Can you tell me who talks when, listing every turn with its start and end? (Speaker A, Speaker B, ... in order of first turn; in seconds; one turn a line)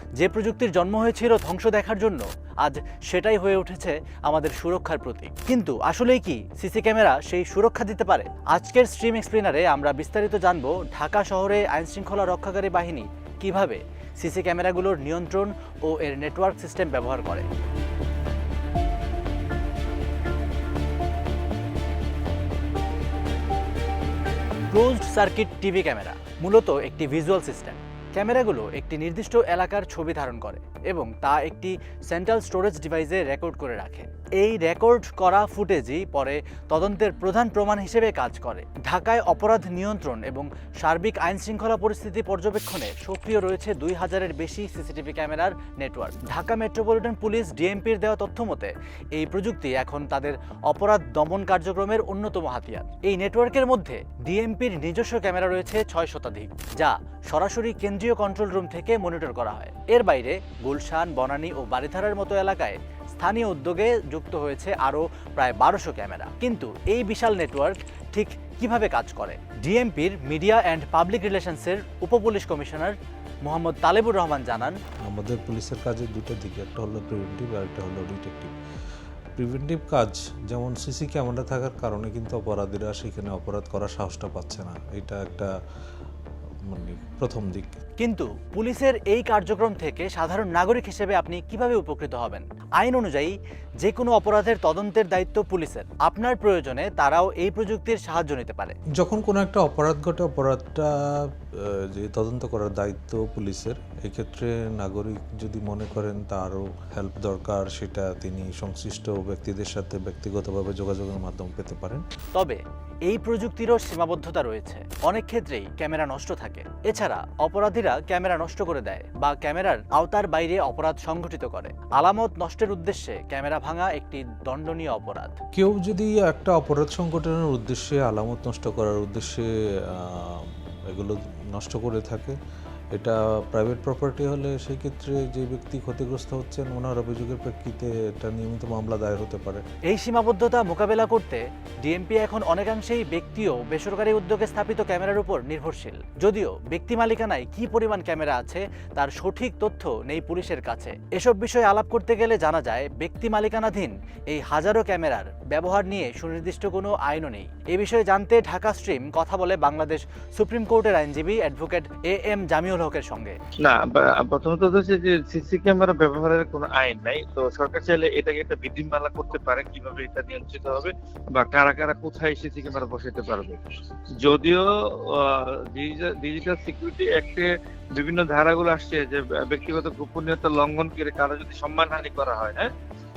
Speaker A: 0.2-17.5
Speaker A: 24.7-74.8
Speaker B: 75.1-78.5
Speaker B: 79.4-85.5
Speaker B: 86.7-87.8
Speaker A: 88.0-98.8
Speaker B: 98.9-112.0
Speaker A: 112.3-125.3
Speaker B: 125.5-132.4
Speaker B: 132.9-139.6
Speaker A: 139.9-163.3
Speaker C: 163.6-173.6
Speaker C: 174.2-182.7